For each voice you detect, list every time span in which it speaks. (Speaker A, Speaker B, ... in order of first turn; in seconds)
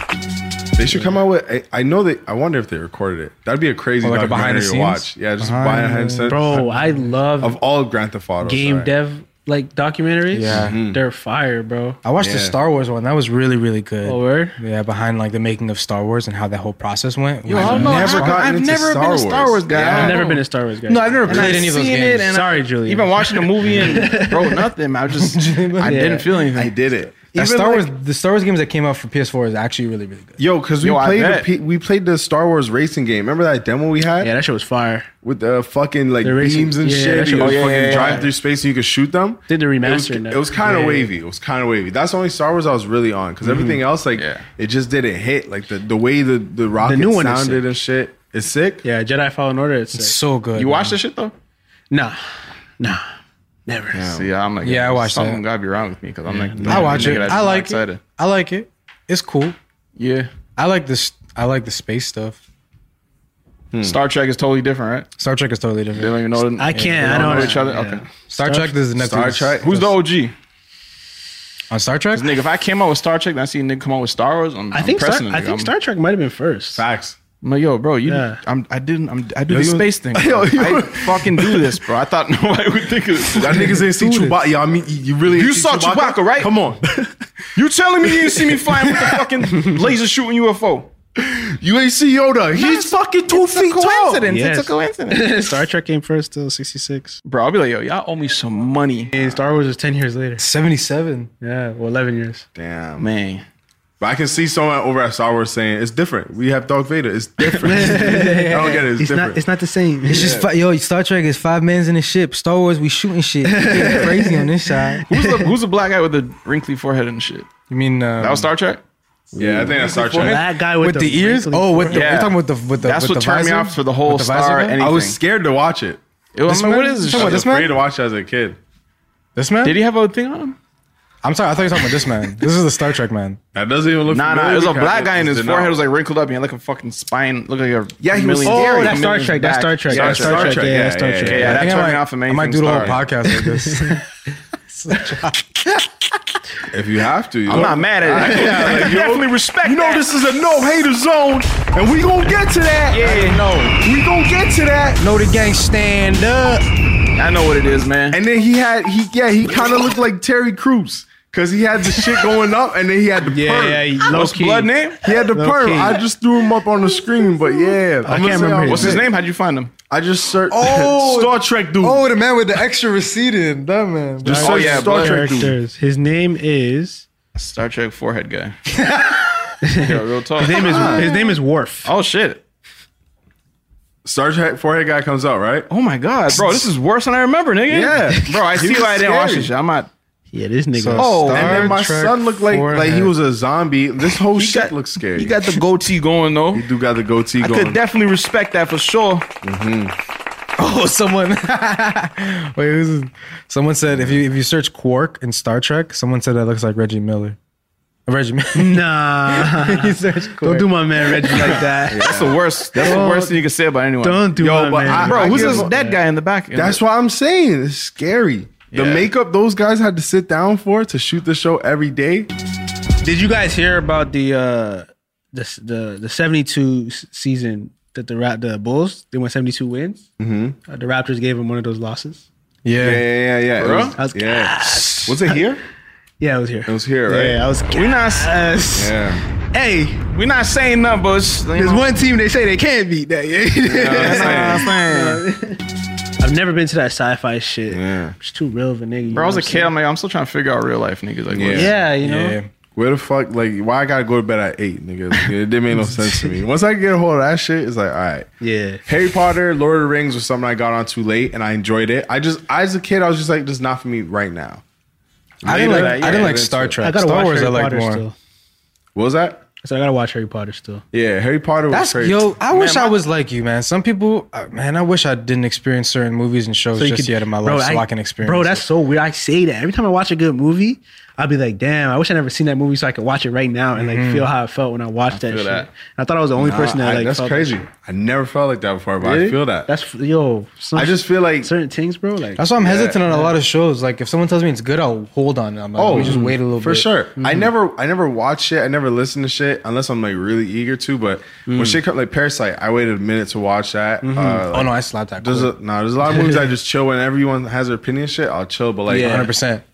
Speaker A: 0.8-6.7, 7.4-8.9, 10.5-11.0, 12.2-12.6, 17.5-20.2, 26.5-27.9, 30.4-34.3, 35.2-48.8, 53.9-54.3, 56.6-57.4, 63.7-64.0, 69.0-69.8, 76.8-77.2, 79.5-81.8, 83.3-87.2, 88.0-89.0, 91.2-94.2, 102.5-103.1, 104.0-109.4, 110.1-110.5, 119.3-120.5, 124.8-126.0, 127.1-128.6, 133.5-135.8, 138.1-138.9, 139.9-141.7, 142.7-143.0, 146.7-155.0, 158.1-164.0, 165.0-169.1, 169.9-172.0, 174.2-175.6, 180.7-181.1, 184.0-185.7, 187.7-189.5, 191.0-195.3, 196.5-197.8, 199.4-199.9, 203.9-204.2, 211.4-213.0, 214.3-215.7, 216.5-222.3, 230.2-230.6, 232.8-235.6, 236.7-237.5, 238.7-239.2, 243.6-244.7, 247.7-248.2, 251.3-251.7, 252.7-258.3, 258.9-264.6, 265.4-266.8, 268.9-269.4, 270.9-272.3, 286.4-289.7, 290.7-291.5, 292.6-293.0, 295.8-309.3
Speaker B: 4.0-7.0, 10.3-10.8, 12.0-18.4, 20.9-22.3, 25.2-26.1, 27.3-30.4, 49.9-50.9, 54.6-55.4, 56.7-59.5, 60.5-62.4, 65.2-67.6, 68.3-69.9, 71.7-72.3, 84.0-84.3, 100.4-101.3, 108.0-108.8, 110.1-115.0, 117.7-118.5, 120.1-124.8, 126.5-127.8, 129.3-129.8, 131.2-133.4, 138.5-138.8, 141.5-144.0, 144.7-145.8, 155.0-156.6, 170.5-174.4, 178.7-179.6, 190.7-193.1, 200.6-207.4, 208.1-210.7, 232.6-233.1, 252.0-252.5, 265.4-268.0, 271.7-278.6, 283.8-284.3, 292.4-296.9, 304.5-305.5, 308.9-309.6
Speaker C: 6.3-7.6, 8.4-12.0, 14.0-14.6, 19.8-24.6, 25.8-26.3, 34.2-35.1, 36.2-38.3, 39.5-41.1, 43.4-43.8, 46.8-47.7, 48.8-50.2, 51.9-52.2, 53.7-54.1, 56.3-57.0, 66.6-68.7, 74.7-76.8, 78.1-78.4, 94.2-97.2, 99.1-100.4, 101.4-102.5, 107.6-110.4, 113.4-115.5, 119.3-122.1, 138.1-141.7, 143.3-144.0, 147.6-148.8, 163.2-166.0, 168.0-169.0, 174.3-177.1, 179.6-181.9, 190.3-191.2, 208.5-213.4, 214.0-216.0, 223.0-230.1, 230.7-232.2, 234.0-235.4, 236.2-240.0, 241.5-245.6, 246.2-249.7, 251.5-252.4, 255.8-256.4, 258.4-258.8, 266.8-268.1, 269.6-270.8, 276.8-287.6, 289.0-292.5, 293.1-293.3, 295.9-296.4, 297.2-297.5, 301.4-301.8, 304.0-304.4, 308.9-309.3
Speaker D: 17.5-20.4, 21.3-26.7, 30.8-31.5, 37.4-38.3, 44.1-44.5, 50.5-51.3, 54.1-58.0, 60.0-60.3, 63.8-65.1, 65.9-68.0, 69.6-70.3, 72.1-75.7, 77.4-83.8, 85.3-86.5, 87.5-90.9, 92.5-95.6, 97.2-99.1, 103.0-103.4, 115.1-117.5, 118.2-118.8, 121.9-125.2, 126.3-127.4, 129.6-130.6, 134.1-143.0, 147.5-150.1, 152.9-153.7, 157.2-158.2, 164.1-165.0, 168.7-169.7, 174.3-175.4, 177.3-178.6, 179.8-181.1, 181.8-182.4, 185.7-189.9, 191.0-191.7, 194.3-196.7, 197.4-199.2, 211.3-216.8, 218.7-219.1, 233.6-233.9, 237.7-238.3, 240.1-241.9, 243.7-245.2, 249.1-251.8, 265.4-266.4, 272.5-272.9, 285.1-285.7